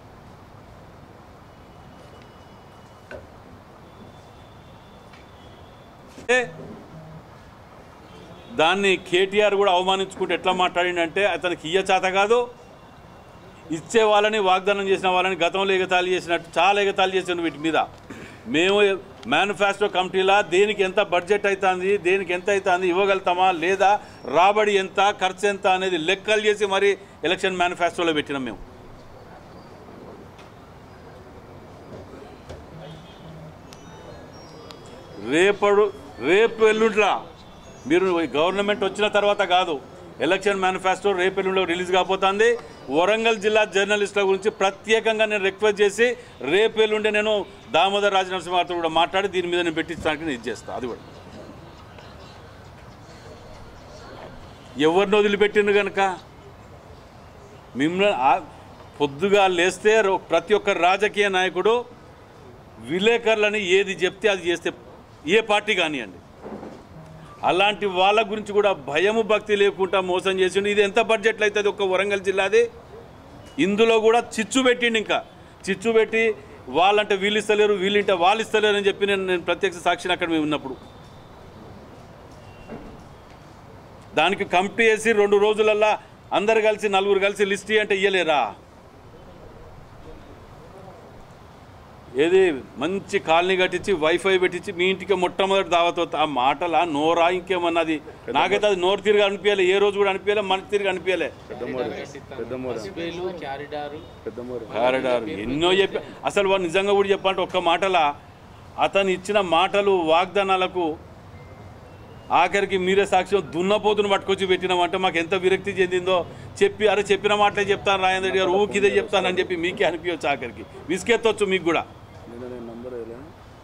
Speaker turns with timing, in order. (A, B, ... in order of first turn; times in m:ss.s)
0:06.2-0:06.5 A
0:08.6-0:12.4 A
0:13.7-0:17.8 A
0:18.5-0:28.6 A
0:35.2-0:37.2 A
0:37.8-0:51.1 A
0:54.8-0:56.1 A
0:57.8-0:58.4 A
0:59.0-1:01.8 A
1:02.9-1:04.8 A
1:05.3-1:06.2 A
1:07.5-1:12.6 A
1:13.6-1:20.8 A
1:24.2-1:28.5 A
1:32.2-1:41.4 A
1:38.3-1:38.6 B
1:41.5-1:43.2 B
1:41.5-1:44.1 C
1:44.2-1:44.9 B
1:44.7-1:48.1 A
1:44.8-1:46.1 C
1:48.8-1:50.9 A
1:52.4-2:01.8 A
1:58.3-1:59.5 B
2:02.3-2:03.3 B